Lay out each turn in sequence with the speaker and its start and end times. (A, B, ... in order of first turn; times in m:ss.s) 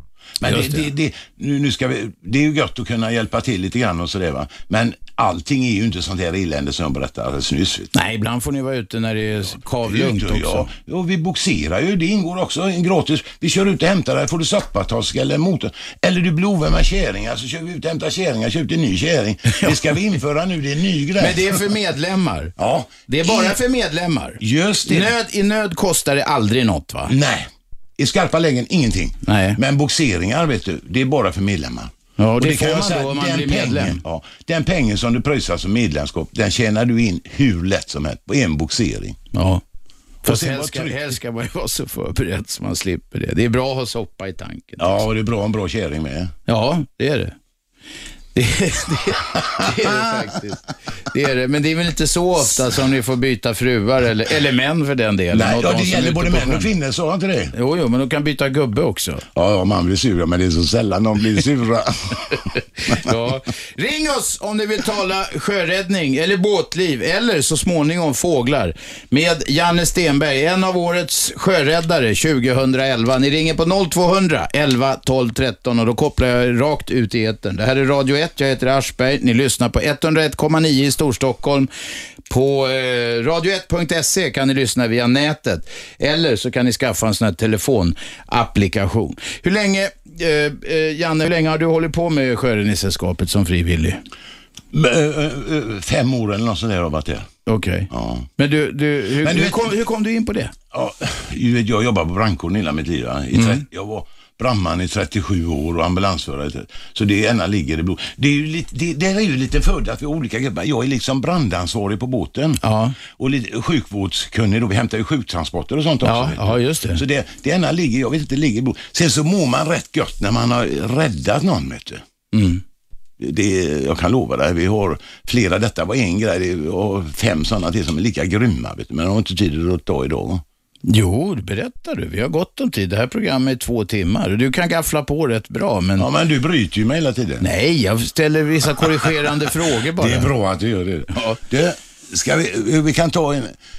0:00.4-0:07.9 A
0:00.4-0:00.9 B
0:07.9-0:10.7 B
0:09.8-0:21.6 A
0:19.5-0:19.8 B
0:21.2-0:22.5 B
0:22.6-0:23.6 A
0:23.1-0:27.1 B
0:24.4-0:25.2 A
0:27.1-0:39.2 A
0:29.2-0:29.6 B
0:32.2-0:34.0 B
0:39.3-0:39.6 B
0:40.2-0:41.0 A
0:40.2-0:45.0 B
0:44.8-0:46.3 A
0:46.5-0:47.4 B
0:48.4-0:56.7 B
0:49.3-0:50.3 A
0:55.3-0:57.5 A
0:57.5-0:59.2 B
0:59.3-1:03.1 A
1:02.9-1:21.7 B
1:22.3-1:34.0 B
1:34.7-1:37.3 A
1:37.5-1:40.5 B
1:37.9-1:38.3 A
1:39.2-1:39.8 A
1:40.7-2:02.0 A
1:43.3-1:43.6 B
1:52.6-1:53.0 B
1:56.0-1:57.0 B
2:02.3-2:02.6 B
2:03.2-2:10.4 A
2:10.9-2:16.1 B
2:16.0-2:17.4 A
2:17.4-2:20.3 B
2:20.0-2:23.5 A
2:21.1-2:21.4 B